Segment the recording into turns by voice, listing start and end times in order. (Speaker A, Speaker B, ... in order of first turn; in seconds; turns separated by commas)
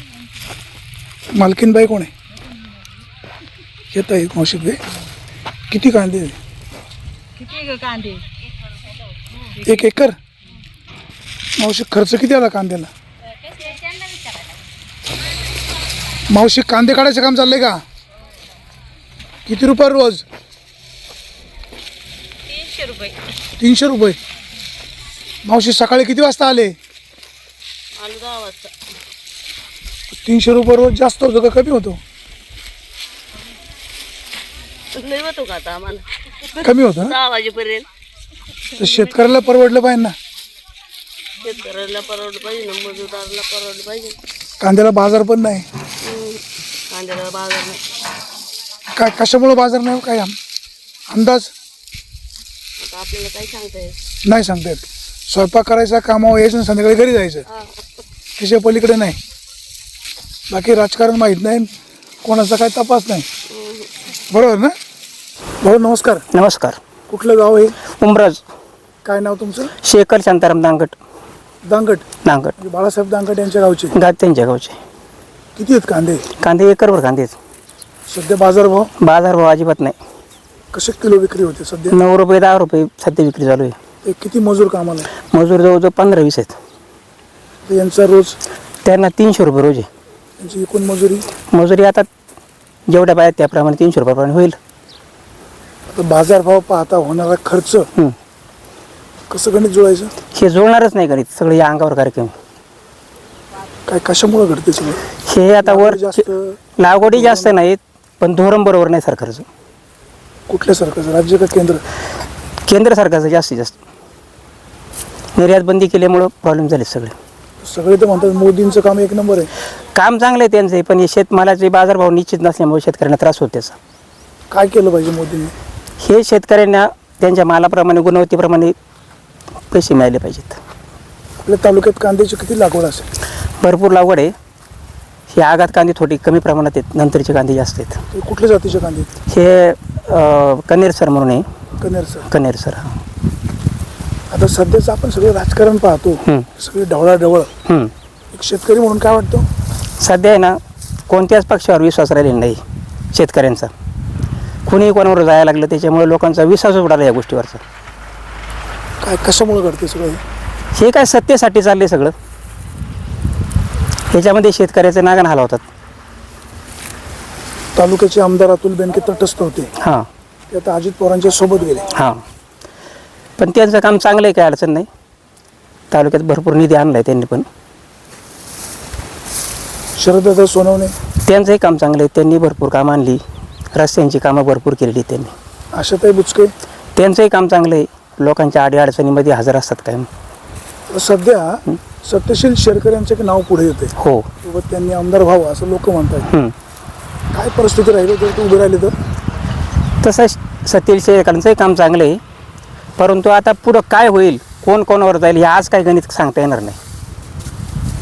Speaker A: 1.4-2.1, Speaker A: 3.9-4.8, Speaker A: 5.7-6.4, Speaker A: 9.6-10.2, Speaker A: 11.6-12.9, Speaker A: 16.3-17.8, Speaker A: 19.5-20.2, Speaker B: 22.5-23.2, Speaker A: 23.6-24.2, Speaker A: 25.4-26.8, Speaker B: 28.0-28.7, Speaker A: 30.2-32.0, Speaker B: 35.0-37.9, Speaker A: 36.6-37.2, Speaker A: 38.8-40.1, Speaker B: 41.4-44.2, Speaker A: 44.6-45.7, Speaker B: 46.0-47.8, Speaker A: 49.0-50.4, Speaker A: 51.1-51.5, Speaker B: 52.8-54.0, Speaker A: 54.2-57.5, Speaker A: 58.4-59.2, Speaker A: 60.5-61.7, Speaker A: 62.2-63.3, Speaker B: 63.5-63.9, Speaker A: 64.3-64.7, Speaker A: 65.6-66.2, Speaker C: 66.3-66.8, Speaker A: 67.1-67.8, Speaker C: 67.9-68.4, Speaker A: 69.0-69.7, Speaker C: 69.8-71.0, Speaker A: 71.7-72.1, Speaker C: 72.2-72.5, Speaker A: 72.6-74.0, Speaker C: 73.9-74.8, Speaker A: 75.6-76.2, Speaker C: 76.4-77.4, Speaker A: 78.1-78.9, Speaker C: 79.0-80.0, Speaker A: 80.7-82.0, Speaker C: 81.9-83.8, Speaker A: 84.0-85.1, Speaker C: 85.3-86.6, Speaker A: 87.7-88.4, Speaker C: 88.8-89.9, Speaker A: 90.4-91.3, Speaker C: 91.5-92.1, Speaker C: 92.9-94.6, Speaker A: 95.9-97.9, Speaker A: 99.3-100.1, Speaker C: 100.3-102.3, Speaker A: 103.9-105.0, Speaker C: 105.2-106.3, Speaker A: 105.6-107.5, Speaker C: 106.8-109.5, Speaker A: 110.5-111.8, Speaker C: 112.7-113.8, Speaker C: 115.4-117.2, Speaker A: 117.6-119.5, Speaker C: 119.9-123.8, Speaker A: 124.5-125.5, Speaker C: 126.0-128.7, Speaker C: 129.7-130.6, Speaker A: 131.4-133.1, Speaker C: 133.6-134.3, Speaker C: 135.3-138.0, Speaker A: 138.1-139.1, Speaker C: 139.3-141.5, Speaker A: 141.8-142.3, Speaker C: 142.3-142.9, Speaker A: 144.3-147.5, Speaker C: 147.7-147.9, Speaker A: 148.3-149.5, Speaker C: 150.0-152.6, Speaker C: 153.1-153.7, Speaker C: 154.7-157.6, Speaker A: 159.0-160.2, Speaker C: 160.8-162.1, Speaker C: 164.1-165.7, Speaker A: 167.8-169.7, Speaker C: 169.8-170.1, Speaker A: 170.5-171.9, Speaker C: 171.9-172.2, Speaker C: 173.4-174.9, Speaker C: 175.9-177.5, Speaker A: 180.0-180.9, Speaker C: 181.2-183.2, Speaker C: 183.7-185.3, Speaker A: 185.8-186.5, Speaker C: 187.0-190.1, Speaker A: 190.9-196.3, Speaker C: 194.0-194.3, Speaker C: 196.3-196.5, Speaker A: 197.3-198.9, Speaker C: 200.0-202.2, Speaker C: 203.0-206.8